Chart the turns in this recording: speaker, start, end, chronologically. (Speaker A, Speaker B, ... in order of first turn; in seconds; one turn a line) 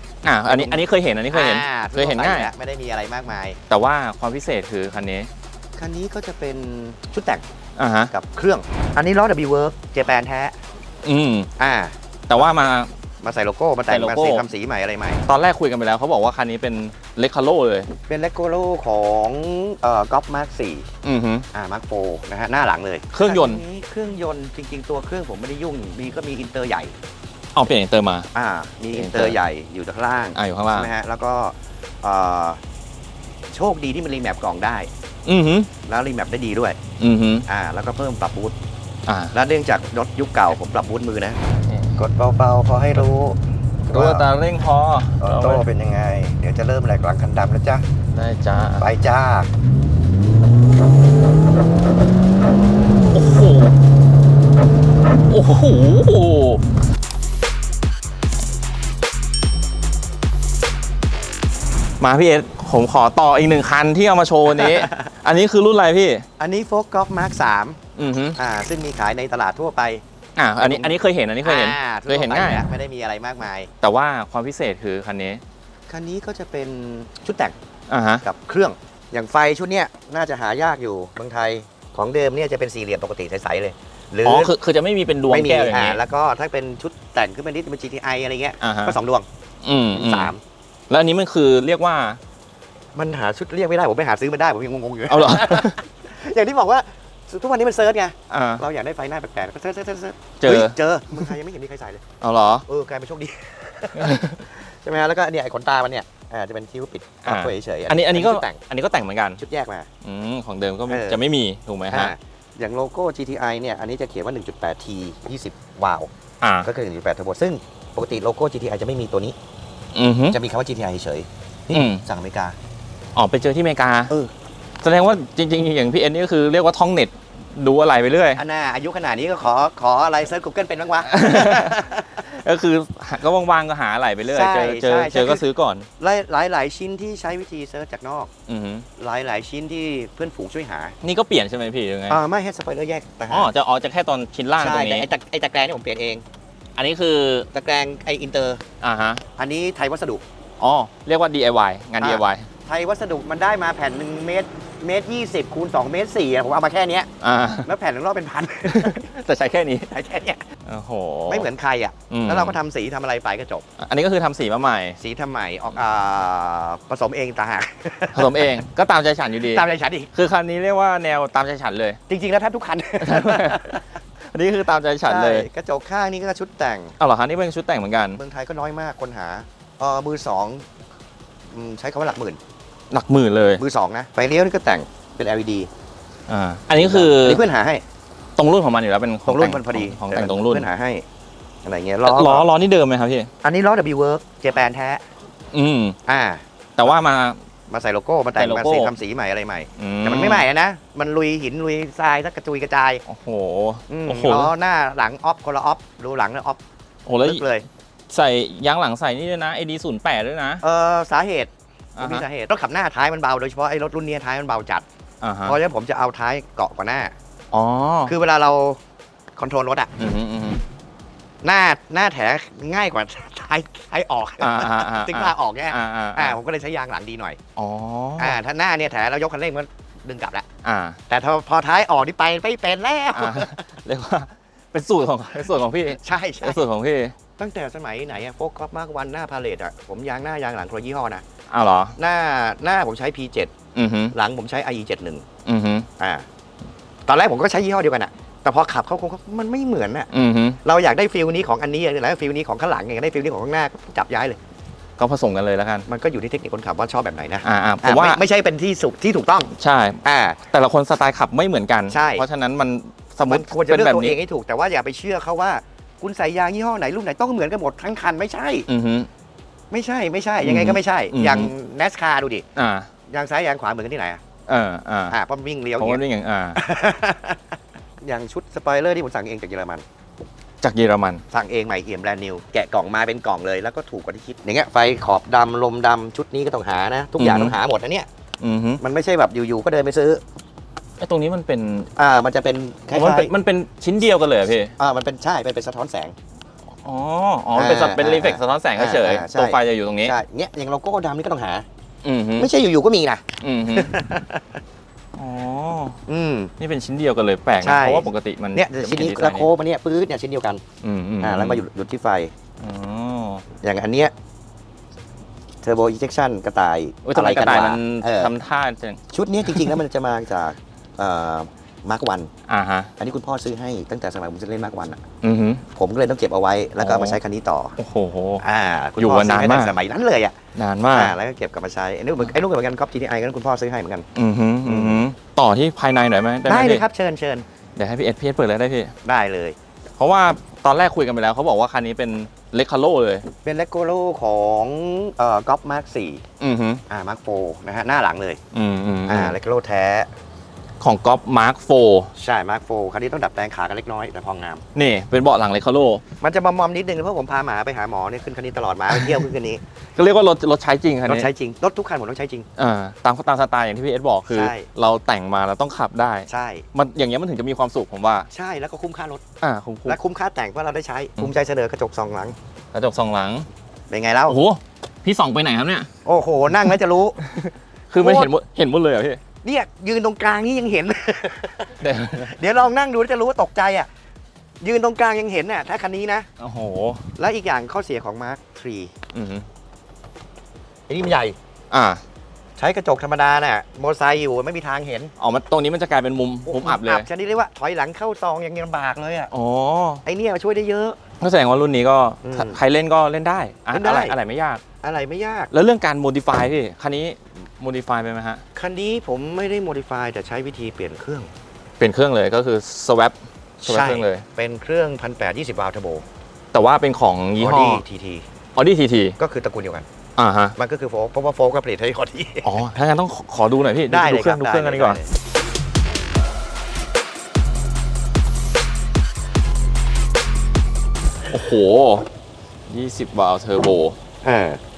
Speaker A: 0.2-2.5
Speaker B: 0.5-3.6
Speaker A: 3.7-5.3
Speaker B: 5.8-7.5
Speaker A: 7.8-8.1
Speaker B: 8.1-10.6
Speaker A: 11.0-11.5
Speaker B: 11.6-12.0
Speaker A: 12.3-12.9
Speaker B: 13.2-15.2
Speaker A: 13.9-14.5
Speaker A: 15.3-17.9
Speaker B: 18.1-20.9
Speaker A: 21.0-21.5
Speaker B: 21.5-26.9
Speaker A: 23.1-23.6
Speaker A: 27.6-28.3
Speaker B: 28.4-32.6
Speaker A: 28.9-29.4
Speaker A: 30.4-30.9
Speaker B: 33.5-34.9
Speaker A: 35.3-35.7
Speaker B: 35.8-36.8
Speaker A: 37.0-37.5
Speaker B: 37.5-38.5
Speaker A: 39.1-39.3
Speaker B: 39.3-41.4
Speaker B: 42.0-44.3
Speaker A: 43.9-45.6
Speaker B: 45.2-47.8
Speaker A: 48.1-48.9
Speaker B: 48.8-49.5
Speaker A: 53.1-53.8
Speaker A: 55.3-56.6
Speaker A: 62.0-66.3
Speaker B: 64.5-65.1
Speaker B: 66.4-67.8
Speaker A: 68.0-68.4
Speaker B: 68.4-70.0
Speaker A: 70.4-72.7
Speaker B: 70.6-73.7
Speaker A: 73.8-75.4
Speaker B: 75.9-77.6
Speaker A: 77.9-78.2
Speaker B: 78.2-84.5
Speaker A: 84.2-86.0
Speaker B: 85.3-89.3
Speaker A: 88.6-89.0
Speaker A: 89.6-90.3
Speaker B: 89.9-90.4
Speaker A: 90.9-92.2
Speaker B: 93.0-102.0
Speaker A: 95.1-95.8
Speaker A: 98.3-98.6
Speaker A: 100.4-101.2
Speaker A: 102.2-102.7
Speaker B: 102.7-108.6
Speaker A: 103.9-104.4
Speaker A: 107.2-109.4
Speaker B: 109.4-109.9
Speaker A: 110.0-112.1
Speaker B: 110.9-111.2
Speaker B: 111.9-116.1
Speaker A: 116.4-116.7
Speaker B: 116.6-119.4
Speaker A: 119.9-120.4
Speaker B: 120.3-122.6
Speaker A: 121.7-122.0
Speaker A: 123.2-124.1
Speaker A: 124.8-128.4
Speaker B: 128.4-132.2
Speaker A: 131.1-135.9
Speaker B: 134.3-135.4
Speaker B: 136.0-138.3
Speaker A: 138.5-138.9
Speaker B: 139.0-140.9
Speaker A: 141.0-142.2
Speaker B: 142.1-143.5
Speaker A: 143.3-145.1
Speaker B: 144.6-146.2
Speaker A: 146.8-147.5
Speaker B: 147.5-148.6
Speaker A: 148.8-149.2
Speaker B: 149.4-150.2
Speaker A: 150.6-152.5
Speaker B: 152.0-157.1
Speaker A: 157.2-157.7
Speaker B: 157.7-159.1
Speaker A: 158.6-159.9
Speaker B: 159.9-160.4
Speaker A: 160.7-161.5
Speaker B: 161.3-163.7
Speaker A: 162.1-162.6
Speaker A: 163.8-165.0
Speaker B: 165.0-168.5
Speaker A: 168.1-172.0
Speaker B: 169.4-170.1
Speaker B: 172.1-173.9
Speaker A: 173.0-175.5
Speaker B: 175.0-177.0
Speaker A: 177.0-178.2
Speaker B: 178.2-180.7
Speaker B: 181.5-182.4
Speaker A: 182.9-183.6
Speaker B: 183.6-185.7
Speaker A: 186.3-187.4
Speaker B: 186.8-187.8
Speaker A: 188.4-190.7
Speaker B: 189.3-191.1
Speaker B: 191.7-192.5
Speaker A: 192.1-193.3
Speaker B: 193.4-195.0
Speaker A: 195.5-196.0
Speaker B: 196.1-197.0
Speaker A: 196.8-197.4
Speaker B: 197.7-203.0
Speaker A: 198.4-198.9
Speaker A: 199.8-200.5
Speaker A: 203.1-204.5
Speaker B: 203.9-206.6
Speaker A: 207.1-207.4
Speaker B: 207.2-207.7
Speaker A: 208.1-210.6
Speaker B: 210.6-214.8
Speaker A: 212.0-212.3
Speaker A: 215.2-215.6
Speaker B: 215.4-217.2
Speaker A: 217.5-218.1
Speaker B: 218.1-218.8
Speaker B: 219.4-219.9
Speaker A: 220.0-220.6
Speaker B: 221.4-227.4
Speaker A: 224.4-226.4
Speaker A: 227.6-228.4
Speaker B: 228.2-230.5
Speaker A: 230.6-231.0
Speaker B: 231.1-233.7
Speaker A: 233.1-237.2
Speaker B: 236.0-236.6
Speaker B: 237.4-241.2
Speaker A: 241.5-242.0
Speaker B: 242.0-243.5
Speaker A: 243.8-244.2
Speaker B: 244.1-245.3
Speaker A: 245.5-245.9
Speaker B: 246.0-246.3
Speaker B: 247.1-250.1
Speaker A: 250.1-250.6
Speaker B: 250.6-254.4
Speaker A: 255.0-255.9
Speaker B: 255.9-259.5
Speaker A: 257.4-258.2
Speaker A: 259.5-264.2
Speaker B: 260.0-260.4
Speaker B: 261.9-262.3
Speaker B: 263.3-268.7
Speaker A: 268.7-269.1
Speaker B: 269.7-272.5
Speaker A: 270.4-271.5
Speaker A: 272.6-272.9
Speaker B: 273.1-274.2
Speaker A: 274.5-275.2
Speaker B: 275.1-276.0
Speaker A: 275.8-276.6
Speaker B: 276.6-277.4
Speaker B: 278.0-279.8
Speaker A: 280.6-281.2
Speaker B: 281.3-288.1
Speaker A: 287.2-287.6
Speaker A: 288.4-288.8
Speaker B: 288.8-290.2
Speaker A: 291.0-291.9
Speaker B: 292.0-293.3
Speaker A: 292.9-294.8
Speaker B: 294.8-296.1
Speaker A: 296.8-300.1
Speaker B: 297.5-301.7
Speaker A: 302.0-302.5
Speaker B: 302.4-304.6
Speaker A: 303.4-303.9
Speaker A: 305.2-306.0
Speaker B: 306.1-306.5
Speaker A: 306.6-309.5
Speaker B: 307.6-310.6
Speaker A: 310.8-311.6
Speaker B: 311.2-312.3
Speaker A: 312.6-313.4
Speaker B: 313.6-314.1
Speaker B: 315.6-318.3
Speaker A: 317.1-319.8
Speaker B: 319.1-322.3
Speaker A: 322.5-322.9
Speaker B: 323.0-325.0
Speaker A: 325.2-325.6
Speaker B: 325.7-327.8
Speaker A: 326.8-327.2
Speaker A: 327.8-328.4
Speaker B: 328.4-330.4
Speaker A: 329.0-329.8
Speaker A: 330.6-331.2
Speaker B: 330.9-334.1
Speaker A: 334.1-336.8
Speaker B: 334.6-335.0
Speaker B: 336.5-337.4
Speaker A: 337.8-338.9
Speaker B: 339.0-339.6
Speaker A: 340.0-343.3
Speaker B: 343.4-346.2
Speaker A: 346.4-346.8
Speaker B: 346.9-348.4
Speaker A: 348.5-349.4
Speaker B: 349.1-350.1
Speaker A: 350.8-352.1
Speaker B: 352.2-354.6
Speaker A: 354.8-356.0
Speaker B: 356.2-359.6
Speaker A: 358.9-359.2
Speaker A: 360.0-361.3
Speaker B: 361.1-362.5
Speaker A: 362.6-368.3
Speaker B: 364.3-364.7
Speaker B: 366.3-366.7
Speaker B: 368.3-369.2
Speaker A: 369.4-370.0
Speaker B: 369.9-372.4
Speaker A: 372.7-373.5
Speaker B: 373.9-374.4
Speaker A: 374.3-375.9
Speaker B: 376.1-377.2
Speaker A: 377.2-379.2
Speaker B: 378.0-378.3
Speaker B: 379.4-383.9
Speaker A: 381.8-382.4
Speaker B: 384.6-386.3
Speaker A: 386.4-387.0
Speaker B: 387.2-388.9
Speaker A: 389.1-389.5
Speaker B: 390.9-391.4
Speaker A: 391.7-392.0
Speaker B: 392.6-395.1
Speaker A: 395.2-397.1
Speaker B: 396.5-399.3
Speaker A: 399.3-400.0
Speaker B: 400.1-401.0
Speaker A: 401.2-404.6
Speaker B: 402.2-402.6
Speaker B: 403.7-404.2
Speaker B: 404.8-405.5
Speaker A: 405.5-408.4
Speaker B: 408.6-411.3
Speaker A: 411.8-414.3
Speaker B: 413.6-416.1
Speaker A: 416.5-417.8
Speaker B: 417.4-418.2
Speaker A: 418.6-419.2
Speaker B: 419.2-419.9
Speaker A: 420.2-420.6
Speaker B: 420.6-422.5
Speaker A: 422.4-425.0
Speaker B: 423.9-425.1
Speaker A: 431.3-432.1
Speaker A: 432.7-434.0
Speaker B: 434.2-434.6